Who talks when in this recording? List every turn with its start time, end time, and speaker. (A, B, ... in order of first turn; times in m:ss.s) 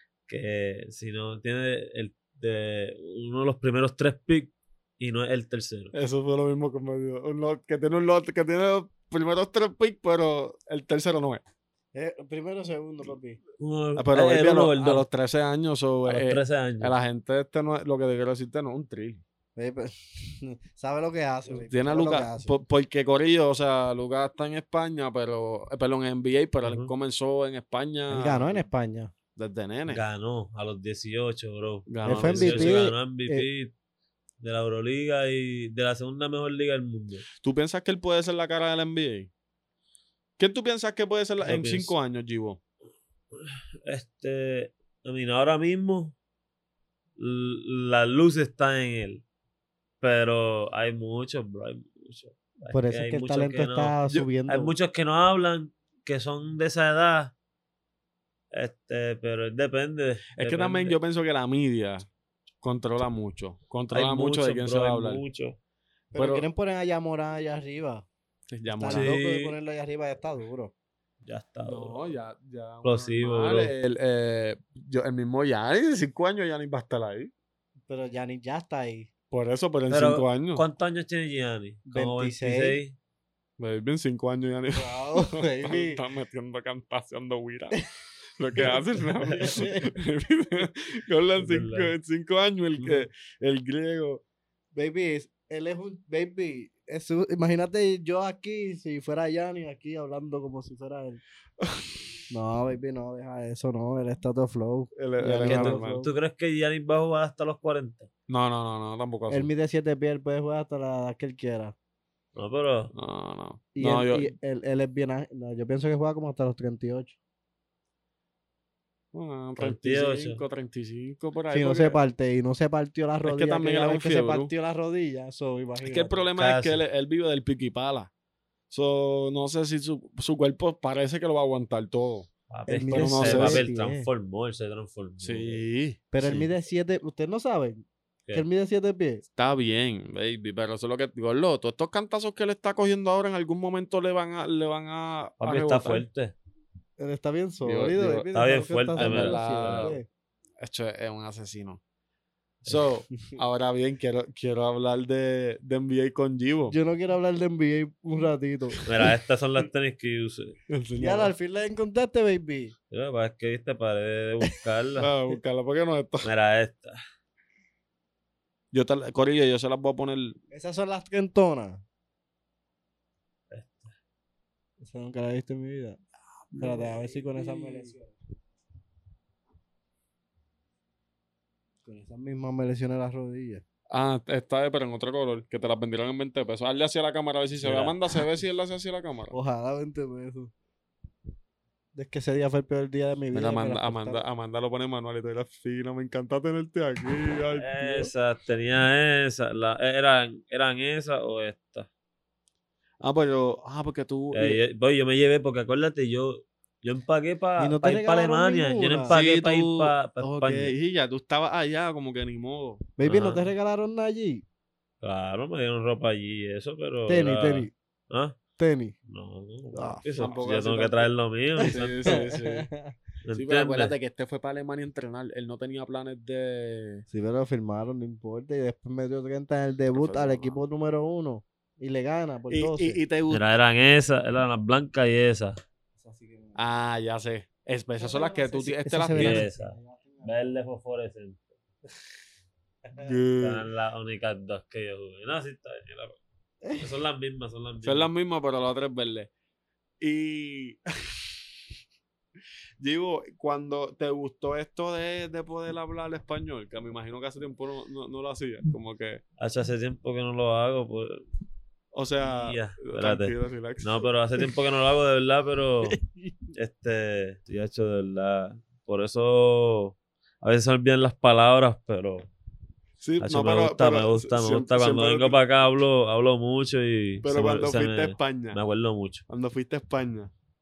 0:00.3-0:05.9 A
0:05.9-0:11.4 B
0:11.9-0:13.4 C
0:13.6-0:15.0 A
0:14.0-0:19.2 B
0:16.0-0:16.9 A
0:19.6-0:22.6 C
0:21.5-0:28.6 B
0:26.6-0:26.9 A
0:28.1-0:29.1 C
0:29.4-0:30.0 B
0:29.9-0:33.7 A
0:31.9-0:32.9 B
0:32.1-0:33.5 C
0:34.4-0:37.3 A
0:37.4-0:39.3 B
0:40.4-0:42.6 B
0:41.4-0:41.9 A
0:43.4-0:46.2 A
0:47.2-0:49.2 A
0:50.0-0:57.3 A
0:52.7-0:54.7 C
0:58.5-1:01.0 A
1:00.4-1:02.1 B
1:02.6-1:05.2 B
1:03.9-1:05.6 A
1:06.1-1:08.1 C
1:06.2-1:06.4 B
1:08.5-1:09.2 B
1:08.7-1:10.7 C
1:08.9-1:09.6 A
1:11.2-1:12.0 A
1:11.7-1:17.3 B
1:12.8-1:13.7 A
1:17.9-1:19.1 C
1:19.3-1:20.6 B
1:19.9-1:23.0 A
1:21.9-1:22.8 C
1:23.6-1:27.8 B
1:24.7-1:26.0 C
1:28.4-1:34.2 B
1:28.6-1:29.9 C
1:31.4-1:31.9 A
1:32.8-1:33.1 A
1:34.8-1:41.2 C
1:42.3-1:46.1 C
1:45.0-1:46.0 B
1:45.5-1:48.1 A
1:48.3-1:49.5 B
1:49.3-1:51.7 C
1:52.4-1:52.9 A
1:52.9-1:54.3 B
1:53.8-1:57.2 C
1:59.1-2:02.0 B
1:59.6-2:00.4 A
2:01.5-2:06.1 C
2:03.2-2:04.5 B
2:05.8-2:08.1 B
2:06.4-2:06.8 A
2:08.7-2:12.3 B
2:12.5-2:15.6 A
2:12.7-2:14.1 C
2:12.9-2:13.6 B
2:15.2-2:16.0 B
2:16.1-2:19.2 C
2:19.4-2:26.1 B
2:25.4-2:26.4 A
2:27.0-2:30.1 C
2:27.6-2:28.2 B
2:28.3-2:30.0 A
2:29.0-2:30.0 B
2:30.6-2:31.8 B
2:32.6-2:36.7 B
2:36.7-2:38.9 C
2:38.8-2:40.6 A
2:40.7-2:41.3 B
2:41.0-2:42.7 C
2:42.9-2:45.1 A
2:45.0-2:46.3 B
2:46.2-2:47.0 A
2:48.7-2:50.4 B
2:50.5-2:51.8 C
2:53.5-2:53.9 A
2:54.8-2:56.0 C
2:56.6-2:58.0 C
2:57.4-2:57.9 B
3:01.8-3:03.6 C
3:03.9-3:09.3 B
3:07.6-3:08.0 A
3:09.3-3:10.5 C
3:12.0-3:14.2 C
3:13.3-3:18.1 B
3:17.6-3:21.9 A
3:23.0-3:24.6 B
3:24.3-3:30.7 A
3:27.6-3:29.2 C
3:29.1-3:32.8 B
3:30.2-3:30.7 C
3:33.0-3:34.4 C
3:33.0-3:33.5 A
3:35.0-3:38.4 A
3:37.1-3:37.7 C
3:38.6-3:39.0 C
3:39.1-3:42.2 A
3:39.7-3:40.4 C
3:40.2-3:41.1 B
3:41.6-3:42.7 B
3:42.1-3:42.9 C
3:43.2-3:43.9 A
3:43.3-3:47.0 B
3:47.1-3:53.0 C
3:49.9-3:50.6 B
3:52.5-3:53.4 B
3:53.3-3:55.6 A
3:56.0-3:56.6 C
3:56.6-3:59.5 B
3:58.0-4:00.5 C
3:59.1-4:01.4 A
4:03.0-4:03.7 B
4:03.4-4:06.2 A
4:06.8-4:08.1 A
4:07.8-4:09.3 B
4:10.0-4:10.8 B
4:12.8-4:19.2 B
4:19.4-4:21.2 A
4:21.9-4:24.1 B
4:22.2-4:26.0 A
4:26.5-4:32.3 A
4:33.0-4:35.4 B
4:33.2-4:39.2 A
4:37.2-4:38.6 B
4:39.3-4:40.3 B